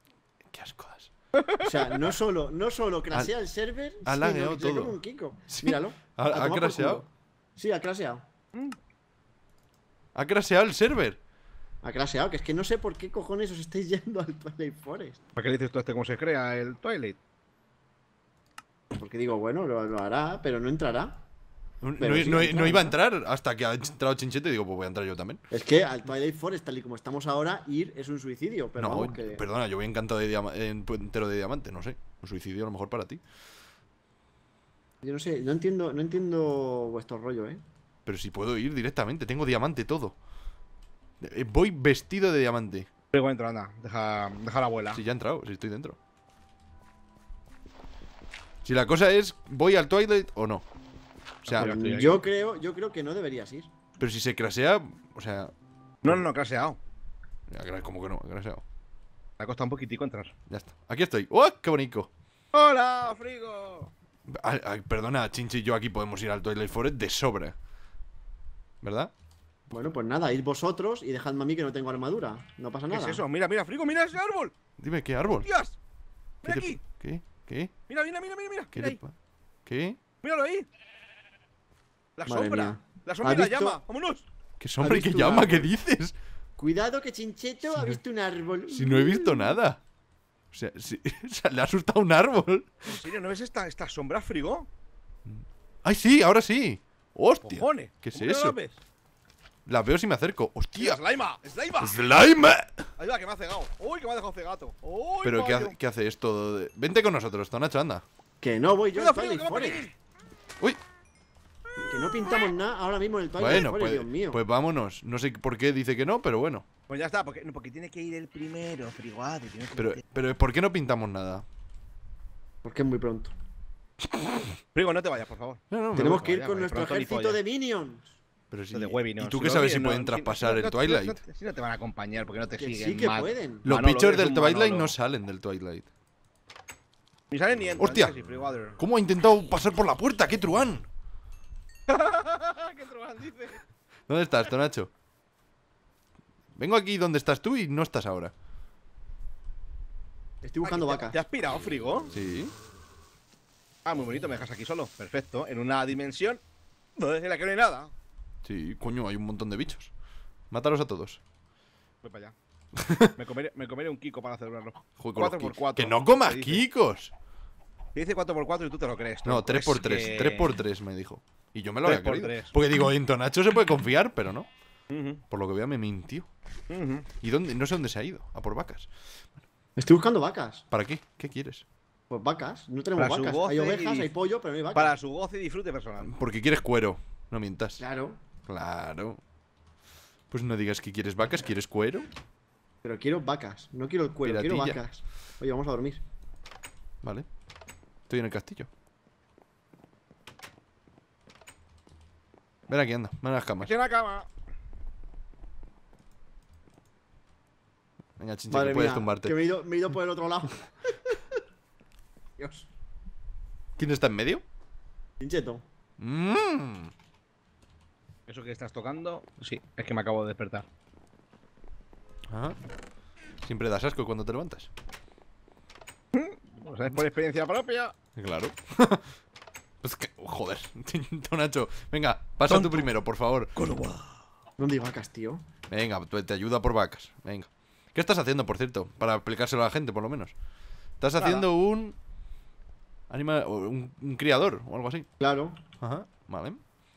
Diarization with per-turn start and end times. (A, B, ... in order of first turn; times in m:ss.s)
0:00.5-0:01.1 A
0:01.3-0:02.0 B
0:01.6-0:08.3 C
0:04.0-0:05.0 A
0:05.5-0:07.0 A
0:10.2-0:11.2 A
0:11.8-0:15.2 C
0:15.4-0:17.2 B
0:18.9-0:21.2 C
0:21.8-0:25.4 A
0:22.0-0:22.9 C
0:25.5-0:29.4 C
0:28.8-0:33.2 A
0:35.0-0:37.6 C
0:38.1-0:40.2 A
0:41.2-0:42.9 A
0:43.1-0:45.0 B
0:44.9-0:46.0 A
0:48.6-0:50.7 A
0:51.4-0:51.8 A
0:51.5-0:52.2 B
0:51.5-0:53.7 C
0:54.0-0:55.5 A
0:56.0-0:56.8 B
0:57.5-0:58.6 A
0:59.4-1:00.3 B
1:00.5-1:02.1 A
1:02.5-1:03.9 B
1:04.3-1:07.6 A
1:08.8-1:09.1 A
1:09.7-1:13.2 C
1:12.9-1:14.5 B
1:14.8-1:15.5 A
1:15.3-1:15.8 B
1:16.4-1:16.8 B
1:16.4-1:17.7 A
1:17.9-1:19.0 B
1:18.7-1:19.2 A
1:19.7-1:20.0 A
1:20.2-1:20.7 B
1:22.2-1:24.3 B
1:22.3-1:23.8 C
1:24.6-1:26.2 A
1:24.8-1:25.7 C
1:26.6-1:29.6 C
1:27.7-1:28.0 A
1:28.7-1:29.8 A
1:30.5-1:33.0 A
1:32.9-1:34.7 B
1:35.2-1:38.6 A
1:37.4-1:38.8 B
1:39.7-1:41.0 A
1:40.8-1:42.0 B
1:41.8-1:42.9 A
1:43.0-1:45.8 B
1:45.2-1:48.0 A
1:48.4-1:49.8 C
1:49.0-1:49.9 B
1:51.8-1:54.4 C
1:53.4-1:56.7 A
1:56.9-2:00.0 B
1:59.8-2:01.4 A
2:02.6-2:03.3 C
2:04.7-2:07.4 B
2:05.7-2:06.2 A
2:05.9-2:08.2 C
2:08.5-2:11.2 A
2:08.7-2:15.0 B
2:12.6-2:13.7 C
2:13.6-2:15.9 A
2:17.3-2:18.8 B
2:17.8-2:18.1 A
2:18.8-2:20.9 A
2:21.9-2:23.6 B
2:24.1-2:24.9 A
2:26.6-2:28.3 A
2:30.4-2:31.2 C
2:30.6-2:32.1 B
2:32.1-2:32.5 A
2:33.8-2:36.4 B
2:37.0-2:37.9 B
2:38.4-2:39.9 A
2:40.5-2:41.2 A
2:42.0-2:42.4 B
2:42.8-2:43.1 A
2:43.2-2:46.6 B
2:45.0-2:47.1 A
2:48.0-2:50.6 B
2:49.2-2:54.5 A
2:51.8-2:52.5 B
2:54.9-2:55.2 B
2:55.3-2:56.3 A
2:56.7-2:57.1 B
2:57.2-2:58.9 A
2:59.8-3:00.6 C
3:00.7-3:01.6 A
3:02.1-3:05.0 C
3:03.0-3:04.1 B
3:04.7-3:06.2 B
3:06.0-3:07.8 A
3:07.8-3:08.2 C
3:08.5-3:09.2 A
3:10.3-3:12.1 A
3:12.8-3:16.0 C
3:14.2-3:14.8 A
3:17.0-3:17.3 A
3:18.1-3:18.7 A
3:22.7-3:23.7 A
3:23.6-3:24.3 B
3:28.2-3:29.4 A
3:28.5-3:31.4 C
3:32.4-3:32.7 C
3:33.8-3:34.4 A
3:35.2-3:35.6 C
3:36.0-3:36.9 A
3:38.3-3:40.7 B
3:42.3-3:42.6 A
3:43.4-3:44.7 A
3:46.1-3:48.0 B
3:48.2-3:49.1 A
3:49.8-3:53.5 A
3:52.5-3:52.9 B
3:53.6-3:54.2 B
3:54.6-3:55.4 C
3:55.7-4:00.3 A
4:01.0-4:02.0 A
4:01.2-4:01.5 B
4:03.1-4:05.1 A
4:05.2-4:05.6 C
4:05.8-4:06.6 A